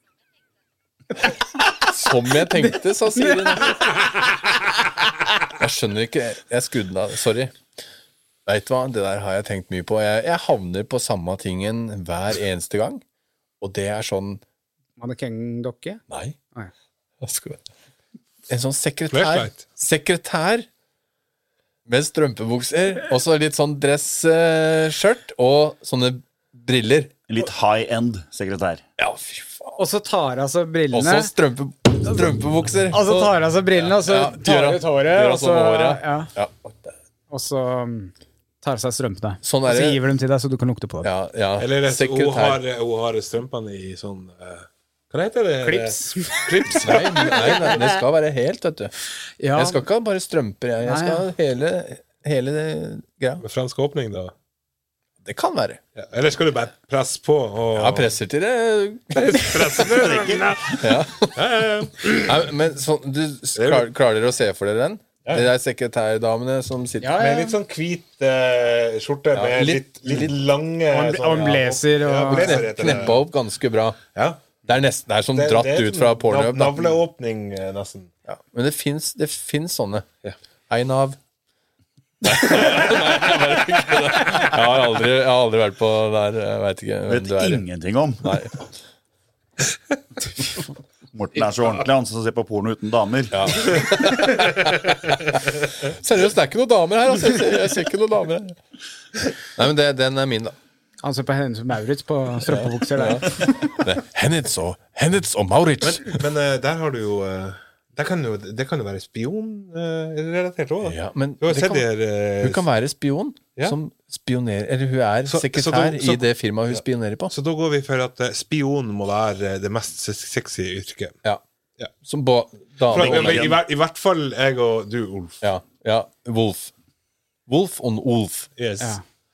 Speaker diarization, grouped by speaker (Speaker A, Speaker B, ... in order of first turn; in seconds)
Speaker A: 1.8-3.8, 5.6-7.6, 8.5-13.0, 13.6-14.4, 16.1-16.4, 17.2-17.6, 18.5-20.7, 21.9-27.1, 29.0-29.8, 30.9-36.9, 39.4-40.0, 41.0-42.6, 46.8-48.9, 49.5-53.4, 55.2-55.8, 57.8-59.9, 60.8-61.4, 62.1-67.2, 69.3-70.3, 72.2-74.0, 74.6-76.9, 78.3-80.1, 80.7-81.2, 82.2-87.6, 88.2-88.7, 93.3-95.2, 95.8-98.6, 99.6-100.5, 102.5-106.2, 110.8-111.9, 112.4-117.3, 122.0-123.6, 125.4-126.7, 127.5-128.5
Speaker B: 2.6-4.0, 15.0-16.0, 29.8-31.3, 32.9-36.3, 37.3-41.1, 45.6-47.9, 49.4-49.8, 50.9-51.2, 67.0-67.6, 70.9-72.9, 101.0-103.8
Speaker C: 19.1-19.7, 41.6-47.4, 53.4-54.3, 56.0-58.1, 59.1-62.4, 63.6-63.9, 67.2-73.2, 74.1-74.5, 75.3-78.1, 105.8-112.6, 115.3-121.2, 122.9-125.4, 128.6-129.0
Speaker D: 27.3-28.8, 59.9-60.9, 87.1-88.4, 91.1-93.5, 122.9-123.6